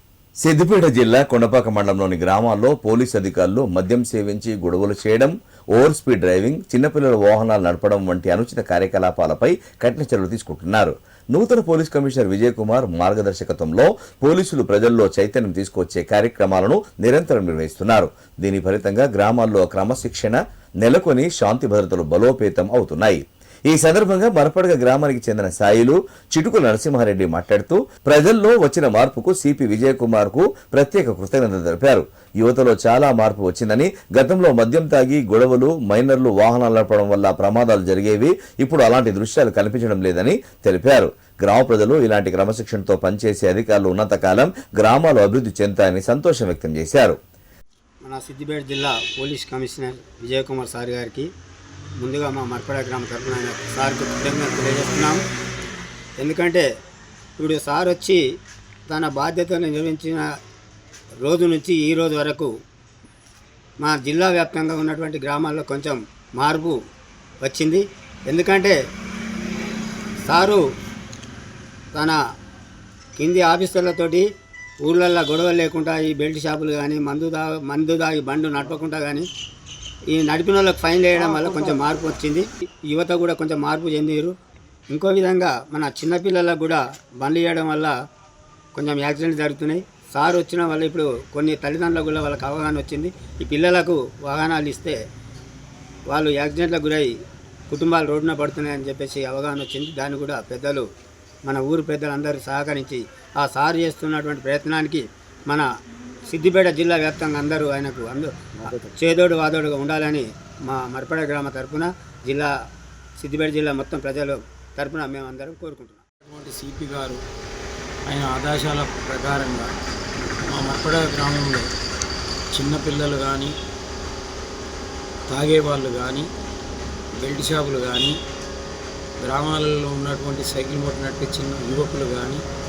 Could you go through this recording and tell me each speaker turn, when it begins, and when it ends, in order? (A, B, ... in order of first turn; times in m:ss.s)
0:00.4-0:47.2 A
0:48.0-0:51.3 B
0:52.0-0:55.2 B
0:56.2-0:56.7 B
0:57.4-0:58.2 B
0:58.9-1:00.3 B
1:01.2-1:02.5 B
1:03.8-1:06.8 B
1:07.4-1:08.8 B
1:10.2-1:10.6 B
1:11.9-1:12.2 B
1:13.2-1:14.3 B
1:14.8-1:19.3 B
1:20.1-1:24.4 B
1:21.2-1:21.9 C
1:24.9-1:27.9 B
1:28.8-1:35.0 B
1:36.1-1:37.1 B
1:37.7-1:40.9 B
1:41.5-1:45.7 B
1:46.3-1:52.5 B
1:48.6-1:48.9 C
1:53.2-1:56.0 B
1:56.2-1:57.2 C
1:58.0-1:59.7 C
2:00.4-2:01.7 C
2:02.5-2:03.5 C
2:05.3-2:06.3 C
2:07.2-2:08.2 C
2:09.2-2:12.4 C